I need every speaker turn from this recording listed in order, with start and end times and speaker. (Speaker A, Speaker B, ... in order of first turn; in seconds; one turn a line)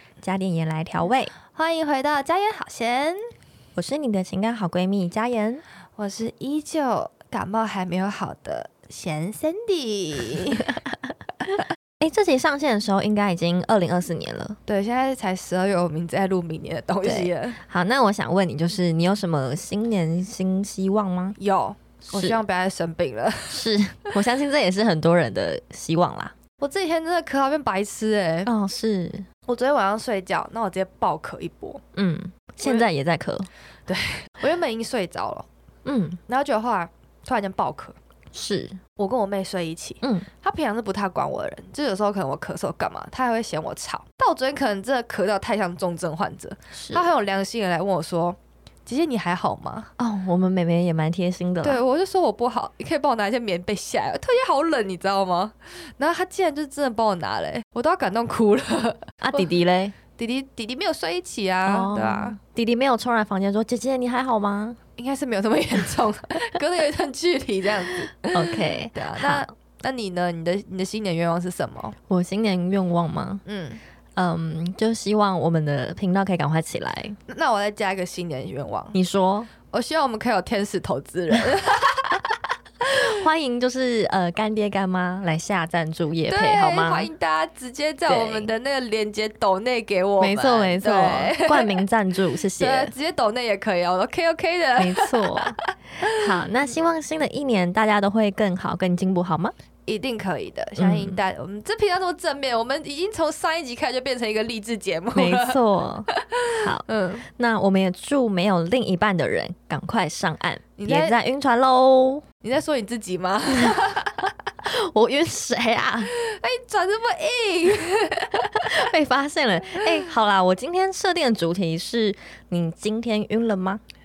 Speaker A: 0.2-1.3
Speaker B: 1.5-3.2
Speaker A: 3.7-5.6
Speaker B: 6.0-10.8
Speaker A: 12.0-14.6
Speaker B: 14.7-17.6
Speaker A: 17.0-21.4
Speaker B: 21.4-23.6
Speaker A: 22.1-22.4
Speaker A: 23.5-26.4
Speaker B: 26.6-28.5
Speaker A: 28.4-29.3
Speaker B: 29.5-31.8
Speaker A: 31.9-33.5
Speaker B: 33.9-35.5
Speaker A: 35.8-36.2
Speaker B: 36.3-38.0
Speaker A: 38.3-38.8
Speaker B: 39.0-49.9
Speaker A: 46.7-47.1
Speaker A: 50.0-51.8
Speaker B: 51.6-59.5
Speaker A: 59.2-60.0
Speaker B: 60.1-62.4
Speaker A: 61.6-64.8
Speaker B: 65.0-72.0
Speaker A: 68.3-69.4
Speaker A: 72.1-73.4
Speaker B: 73.4-73.8
Speaker A: 74.2-77.2
Speaker B: 77.3-79.0
Speaker A: 78.9-79.5
Speaker B: 79.7-82.2
Speaker A: 82.8-87.1
Speaker B: 86.3-91.8
Speaker A: 88.1-88.5
Speaker A: 90.2-92.9
Speaker B: 92.5-96.2
Speaker A: 94.8-95.6
Speaker A: 96.1-99.5
Speaker B: 99.9-107.2
Speaker A: 100.8-101.2
Speaker A: 105.1-112.2
Speaker B: 110.8-111.2
Speaker B: 112.4-114.3
Speaker A: 114.6-116.1
Speaker B: 116.2-118.8
Speaker A: 118.6-123.8